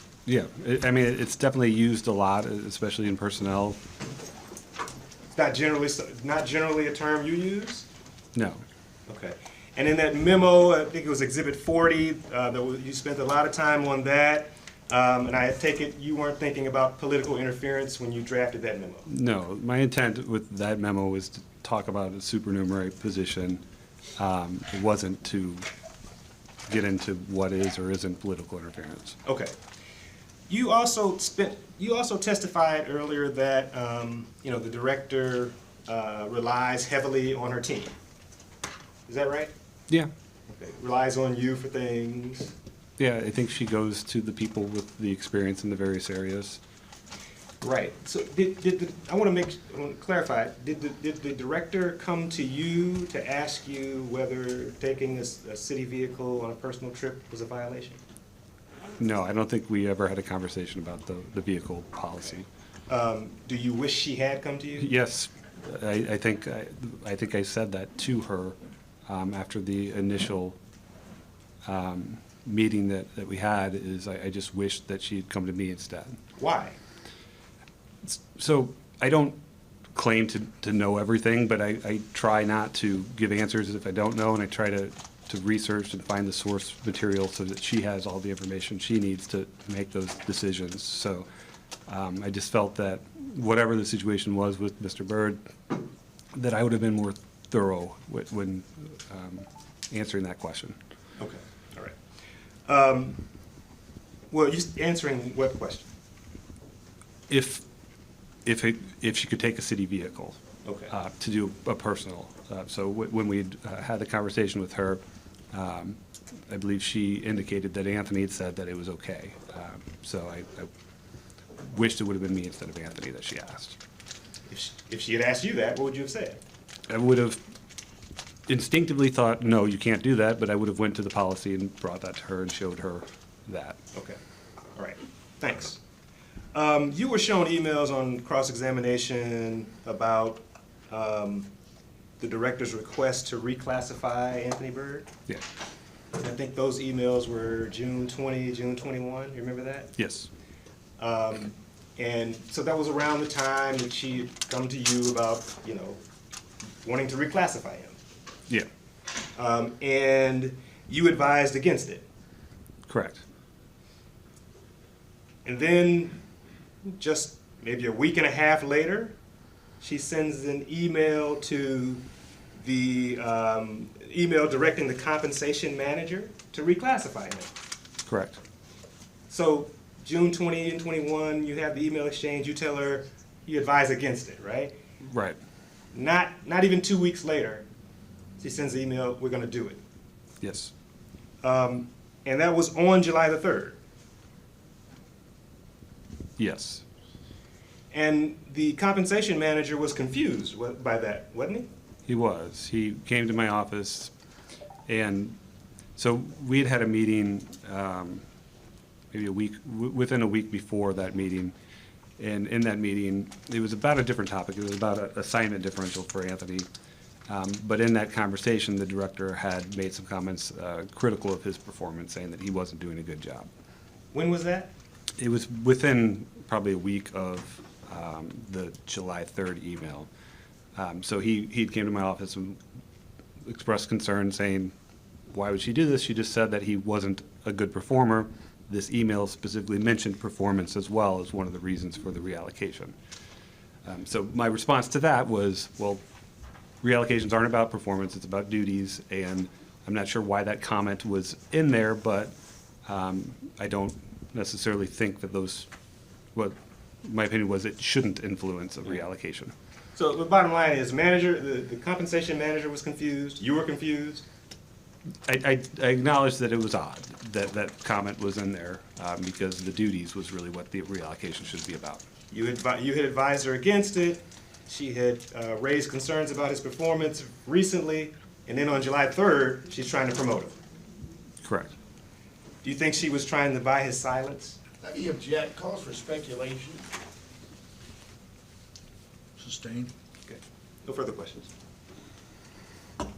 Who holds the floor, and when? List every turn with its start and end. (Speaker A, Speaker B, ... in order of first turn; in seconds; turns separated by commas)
Speaker A: 0.3-3.8, Speaker B: 5.3-7.9, Speaker A: 8.3-8.6, Speaker B: 9.1-19.1, Speaker A: 19.1-23.6, Speaker A: 24.2-25.6, Speaker A: 26.7-29.2, Speaker B: 29.3-29.5, Speaker B: 30.5-38.0, Speaker B: 39.1-39.5, Speaker B: 40.5-42.5, Speaker A: 43.0-46.6, Speaker B: 47.6-58.0, Speaker A: 59.0-62.5, Speaker B: 62.9-64.9, Speaker A: 64.8-68.6, Speaker A: 69.1-70.6, Speaker A: 71.7-76.2, Speaker B: 76.4-76.8, Speaker A: 78.0-79.4, Speaker A: 80.0-91.3, Speaker A: 91.9-95.8, Speaker A: 96.3-100.8, Speaker B: 101.2-102.0, Speaker B: 102.7-103.2, Speaker B: 104.3-105.9, Speaker A: 107.3-107.6, Speaker A: 108.5-110.4, Speaker B: 110.7-110.9, Speaker A: 110.9-115.0, Speaker A: 115.5-120.7, Speaker A: 121.7-123.8, Speaker B: 124.5-126.4, Speaker A: 126.9-127.4, Speaker A: 128.5-133.8, Speaker B: 134.8-135.8, Speaker B: 136.5-141.5, Speaker B: 142.2-145.1, Speaker B: 146.2-149.9, Speaker A: 150.0-150.3, Speaker B: 151.0-156.0, Speaker B: 156.8-158.0, Speaker B: 159.4-162.1, Speaker A: 162.9-163.2, Speaker B: 165.4-166.2, Speaker B: 166.8-169.2, Speaker B: 169.8-172.0, Speaker B: 172.6-177.5, Speaker A: 178.1-178.4, Speaker B: 179.3-184.8, Speaker A: 185.0-185.4, Speaker B: 185.9-187.7, Speaker B: 188.4-189.8, Speaker A: 190.4-190.7, Speaker B: 191.4-193.8, Speaker A: 196.4-196.8, Speaker B: 197.9-201.7, Speaker A: 202.1-204.1, Speaker A: 204.9-205.4, Speaker A: 206.0-208.2, Speaker A: 209.1-211.5, Speaker A: 212.2-216.7, Speaker A: 217.3-223.5, Speaker B: 224.1-224.7, Speaker A: 225.2-230.1, Speaker A: 230.8-232.6, Speaker A: 233.4-234.7, Speaker A: 235.3-242.9, Speaker A: 243.8-246.0, Speaker A: 246.8-252.3, Speaker A: 252.9-255.7, Speaker A: 256.4-259.5, Speaker B: 260.0-264.2, Speaker A: 265.3-272.0, Speaker B: 272.3-280.6, Speaker A: 281.4-281.7, Speaker B: 282.6-284.6, Speaker C: 284.8-286.9, Speaker C: 289.4-289.9, Speaker B: 290.3-291.5